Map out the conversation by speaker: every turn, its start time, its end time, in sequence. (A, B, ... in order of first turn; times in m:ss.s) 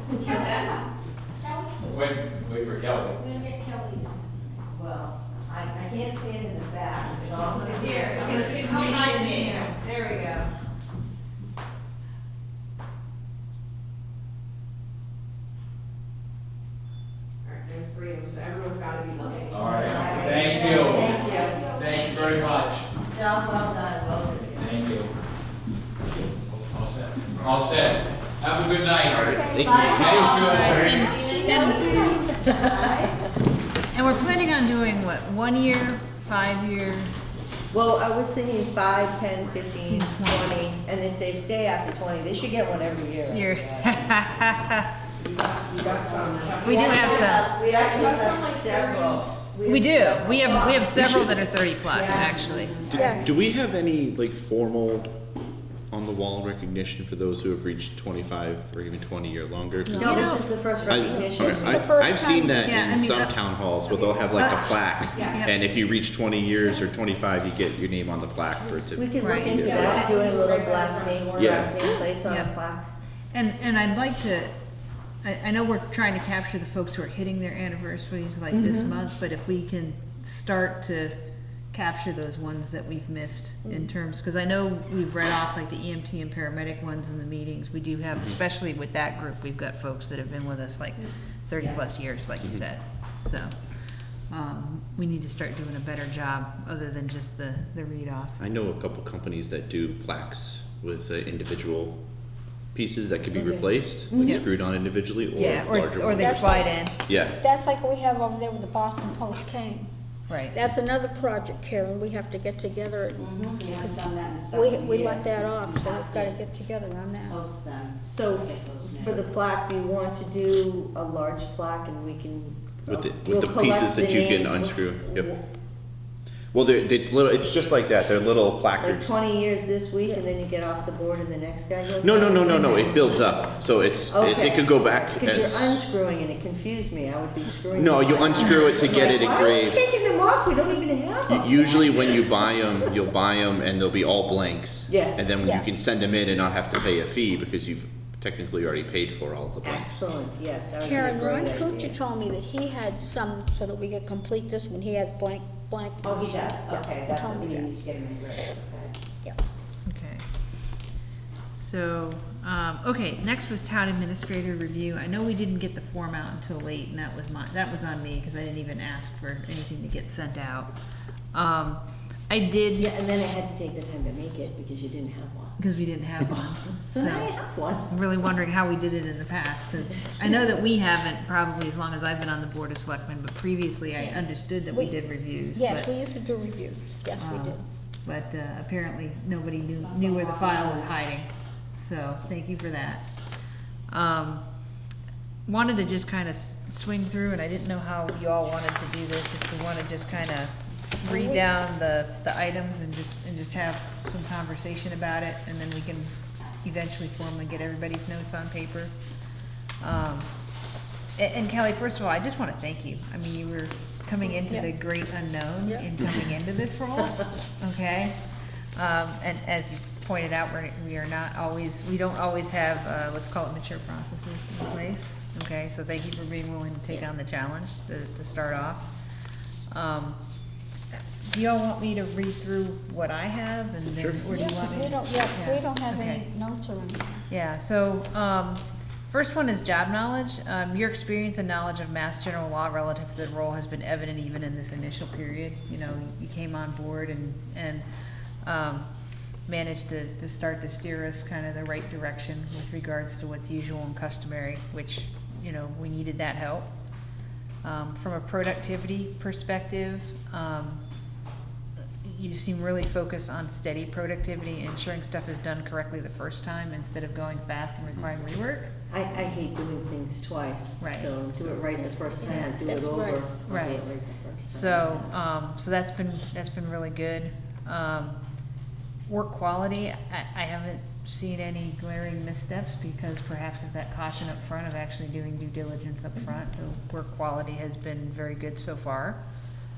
0:00.2-0:00.8 A
0:00.2-0:00.7 B
0:01.4-0:02.1 B
0:01.9-0:03.2 C
0:03.2-0:04.2 B
0:04.7-0:08.9 D
0:07.8-0:10.5 A
0:07.9-0:09.5 B
0:17.4-0:21.6 E
0:19.5-0:22.9 C
0:19.6-0:21.6 D
0:20.9-0:21.6 F
0:20.9-0:21.9 B
0:23.3-0:24.4 D
0:24.6-0:25.1 C
0:26.5-0:31.2 C
0:29.1-0:30.1 G
0:29.3-0:30.3 B
0:29.6-0:31.6 F
0:30.4-0:32.3 A
0:31.0-0:32.9 D
0:31.6-0:32.0 B
0:33.9-0:37.1 A
0:37.7-0:44.1 D
0:39.9-0:40.5 A
0:43.3-0:44.9 A
0:45.2-0:49.2 E
0:45.8-0:53.2 D
0:46.6-0:47.5 A
0:49.6-0:52.8 A
0:52.9-0:55.1 G
0:52.9-0:53.3 B
0:55.9-1:10.0 G
0:59.9-1:00.3 A
0:59.9-1:00.4 B
1:00.0-1:01.9 D
1:01.2-1:02.7 B
1:02.6-1:03.3 A
1:03.9-1:04.3 B
1:05.1-1:05.4 E
1:05.2-1:05.6 A
1:09.0-1:12.9 D
1:09.2-1:09.6 A
1:09.6-1:11.2 E
1:11.3-1:11.8 G
1:12.3-1:12.5 A
1:13.3-1:14.5 A
1:15.2-1:21.2 A
1:18.5-1:19.0 D
1:21.7-1:33.6 A
1:23.6-1:23.9 D
1:34.3-1:38.4 A
1:38.4-1:42.0 G
1:42.7-1:47.4 G
1:43.4-1:44.4 D
1:45.4-1:47.0 A
1:45.4-1:45.7 D
1:46.1-1:49.9 B
1:50.3-1:50.6 A
1:50.5-1:57.4 B
1:53.3-1:56.3 F
1:57.4-1:57.7 F
1:58.0-2:05.3 D
2:02.9-2:05.4 G
2:06.5-2:09.1 G
2:08.8-2:13.3 D
2:12.0-2:15.8 G
2:14.1-2:22.3 D
2:17.8-2:19.9 G
2:21.3-2:30.0 G
2:24.9-2:25.3 D
2:25.4-2:25.7 B
2:29.6-2:32.0 D
2:30.8-2:37.7 B
2:36.1-2:38.9 D
2:39.9-2:40.2 A
2:41.6-2:50.7 A
2:51.3-2:52.9 A
2:52.8-2:55.6 D
2:55.6-2:57.4 A
2:56.2-2:57.9 D
2:57.9-3:05.9 A
3:05.5-3:07.6 B
3:07.2-3:13.1 A
3:13.9-3:14.4 A
3:15.5-3:28.9 A
3:21.0-3:21.4 B
3:29.8-3:30.3 A
3:31.2-3:38.2 A
3:38.8-3:48.9 A
3:49.7-3:50.2 A
3:51.3-3:56.3 A
3:54.3-3:57.2 B
3:57.3-4:07.8 A
4:08.4-4:08.9 A
4:09.5-4:16.7 A
4:17.6-4:20.8 A
4:22.0-4:28.7 A
4:27.9-4:28.1 G
4:28.9-4:35.1 D
4:30.8-4:31.1 A
4:32.2-4:33.2 B
4:33.5-4:33.8 A
4:34.5-4:38.2 A
4:39.1-4:49.2 A